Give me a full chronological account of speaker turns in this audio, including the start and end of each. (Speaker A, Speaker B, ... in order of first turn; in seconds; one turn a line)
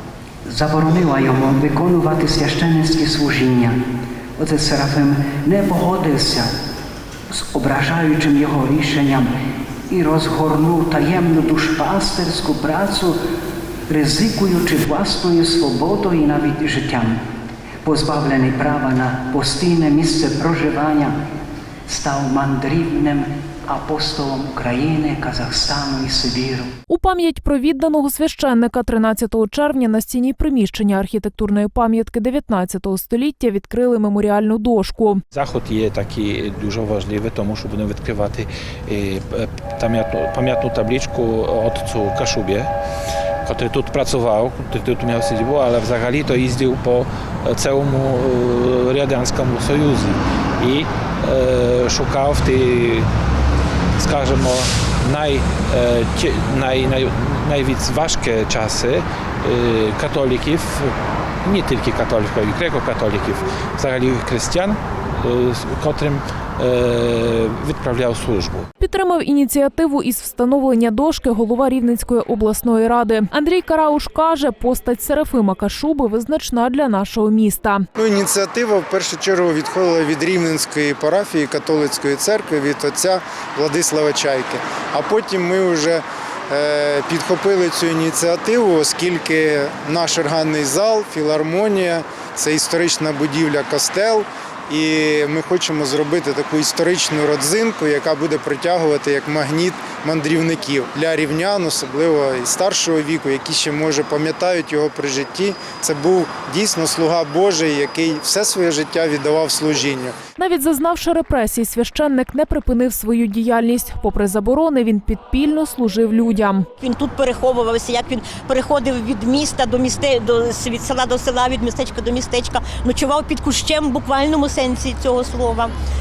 Speaker A: 0.5-3.8
Speaker A: 4.4-6.5
Speaker A: 7.3-9.3
Speaker A: 9.9-13.2
Speaker A: 13.9-17.2
Speaker A: 17.8-21.1
Speaker A: 21.9-26.7
Speaker B: 26.9-35.2
Speaker C: 35.3-42.7
Speaker C: 43.5-53.1
Speaker C: 54.0-60.9
Speaker C: 61.5-68.7
Speaker B: 68.8-77.9
Speaker D: 78.0-110.1
Speaker B: 110.4-116.7
Speaker E: 116.8-125.7